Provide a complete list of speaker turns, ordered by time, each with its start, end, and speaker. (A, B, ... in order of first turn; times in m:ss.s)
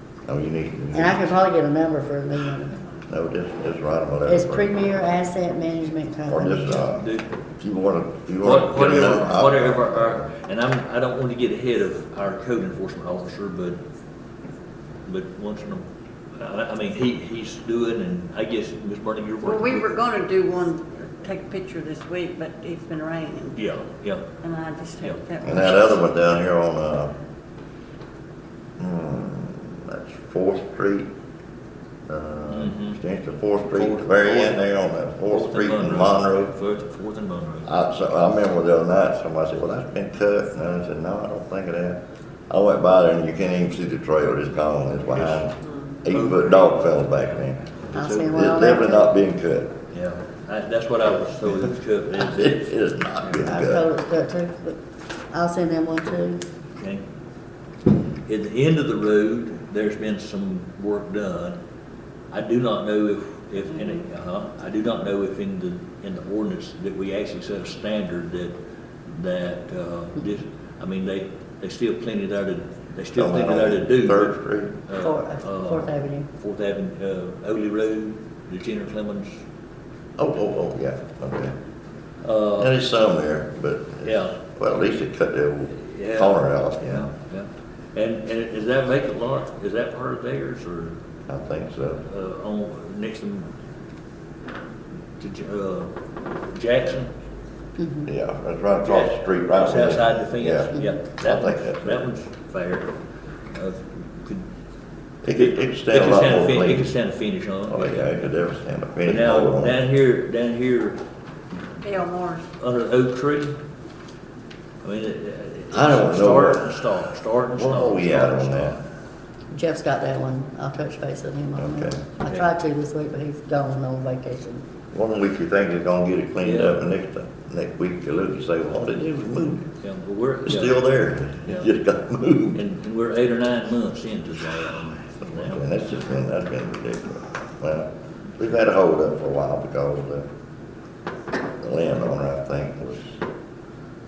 0:00.3-0:01.3 A
0:00.9-0:02.8 B
0:03.1-0:04.7 A
0:04.2-0:06.8 B
0:06.3-0:10.3 A
0:06.8-0:07.3 C
0:08.4-0:13.8 C
0:15.1-0:15.8 C
0:16.4-0:20.1 C
0:19.4-0:23.6 D
0:23.6-0:24.3 C
0:24.4-0:26.0 D
0:25.4-0:27.1 A
0:28.8-0:31.1 A
0:32.1-0:36.5 A
0:32.5-0:33.0 C
0:33.7-0:34.6 C
0:35.3-0:37.7 C
0:37.6-0:42.0 A
0:42.5-0:47.6 A
0:45.2-0:45.4 C
0:46.1-0:48.3 C
0:47.9-0:49.1 B
0:48.2-0:49.7 A
0:49.9-0:52.6 C
0:52.2-0:53.8 A
0:53.4-0:54.8 B
0:55.3-0:56.4 B
0:56.8-0:57.0 C
0:58.3-1:01.6 C
1:02.3-1:08.5 C
1:09.1-1:14.4 C
1:13.2-1:14.8 A
1:14.9-1:19.3 C
1:15.0-1:16.3 B
1:20.2-1:21.6 A
1:22.2-1:22.7 C
1:22.6-1:27.1 A
1:24.0-1:24.3 C
1:25.8-1:31.0 C
1:31.3-1:32.0 A
1:32.0-1:33.5 C
1:35.2-1:35.9 C
1:36.5-1:37.1 C
1:37.8-1:38.1 B
1:38.1-1:42.1 A
1:38.8-1:42.9 C
1:43.5-1:44.4 C
1:45.2-1:46.9 A
1:45.4-1:48.1 C
1:47.7-1:49.8 A
1:49.0-1:51.0 C
1:51.8-1:52.5 D
1:52.6-1:53.6 C
1:54.8-1:58.8 C
1:55.7-1:56.9 A
1:57.6-1:58.8 A
1:59.5-2:04.6 B
2:01.6-2:02.0 A
2:04.9-2:09.7 A
2:06.4-2:06.8 C
2:09.8-2:11.7 C
2:10.4-2:12.6 A
2:12.5-2:15.7 C
2:15.2-2:20.2 A
2:21.5-2:23.2 A